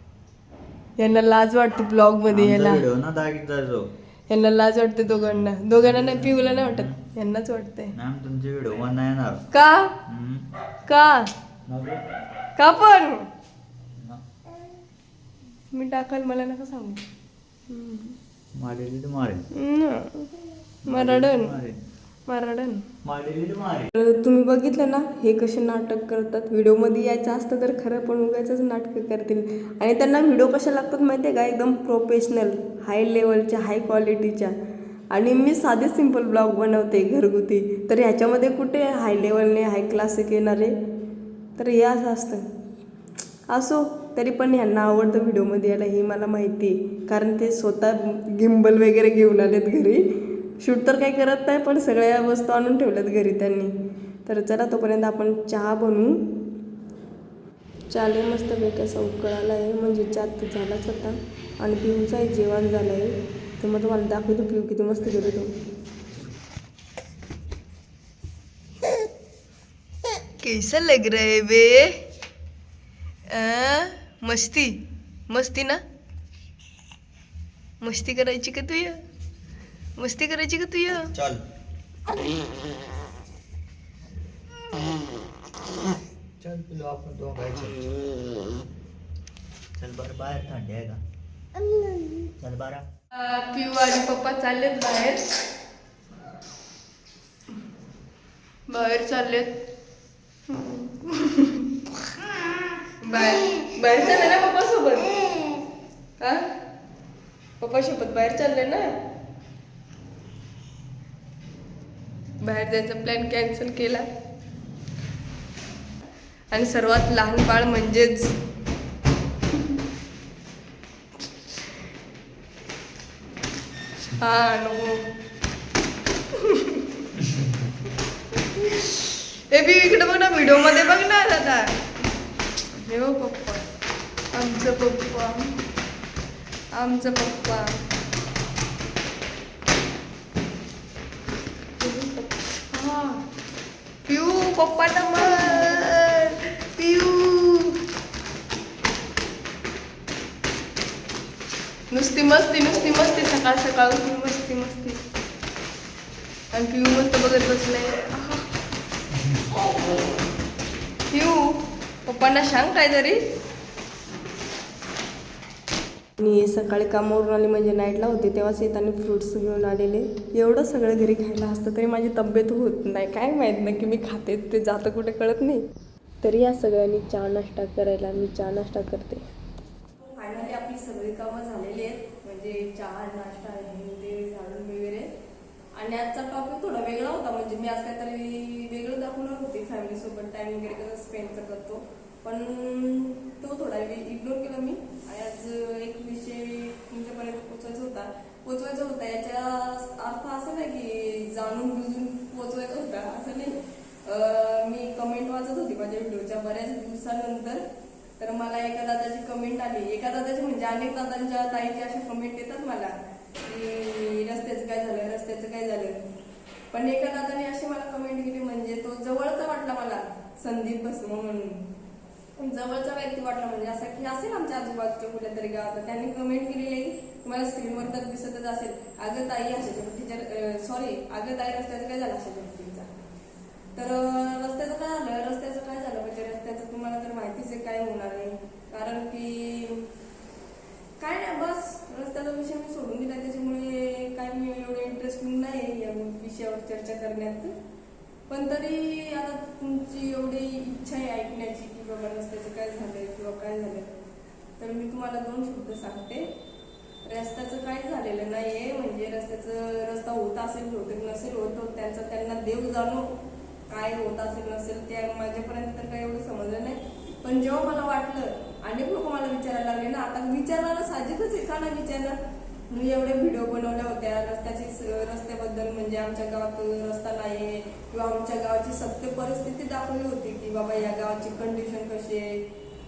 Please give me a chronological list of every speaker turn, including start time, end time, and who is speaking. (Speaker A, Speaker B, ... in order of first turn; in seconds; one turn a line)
Speaker A: 1.0-2.9
Speaker B: 2.3-3.8
Speaker A: 4.3-7.9
Speaker B: 5.7-7.0
Speaker B: 7.9-9.4
Speaker A: 9.5-10.0
Speaker B: 10.1-10.4
Speaker A: 10.9-11.3
Speaker B: 11.7-12.1
Speaker A: 12.6-13.3
Speaker A: 15.7-17.1
Speaker A: 17.7-18.1
Speaker B: 18.6-19.4
Speaker A: 19.5-21.5
Speaker B: 20.9-21.8
Speaker A: 22.3-22.8
Speaker B: 23.0-23.9
Speaker A: 23.9-34.6
Speaker A: 35.1-40.8
Speaker A: 41.6-42.4
Speaker A: 43.5-53.7
Speaker A: 54.2-56.4
Speaker A: 57.9-65.5
Speaker A: 70.4-72.0
Speaker A: 73.3-75.8
Speaker A: 77.8-79.0
Speaker A: 80.0-81.1
Speaker B: 81.1-81.4
Speaker B: 86.4-87.9
Speaker B: 89.8-91.0
Speaker B: 92.2-92.8
Speaker A: 93.1-95.3
Speaker A: 98.7-99.6
Speaker A: 100.5-101.8
Speaker A: 103.0-105.2
Speaker A: 106.2-106.6
Speaker A: 107.6-109.0
Speaker A: 112.4-114.1
Speaker A: 116.5-118.4
Speaker A: 124.1-125.1
Speaker A: 126.3-127.0
Speaker A: 128.3-131.8
Speaker A: 132.7-133.7
Speaker A: 134.3-135.6
Speaker A: 136.7-137.9
Speaker A: 141.8-143.2
Speaker A: 144.1-147.9
Speaker A: 151.9-155.0
Speaker A: 156.5-158.5
Speaker A: 161.1-163.2
Speaker A: 166.2-175.6
Speaker A: 176.2-179.2
Speaker A: 180.0-185.1
Speaker A: 185.7-207.6
Speaker A: 208.2-216.0
Speaker A: 216.7-221.7
Speaker A: 222.4-232.9
Speaker A: 233.7-239.9
Speaker A: 241.0-247.5
Speaker A: 248.3-253.9
Speaker A: 254.6-256.3
Speaker A: 257.1-263.1
Speaker A: 263.7-272.2
Speaker A: 272.7-282.4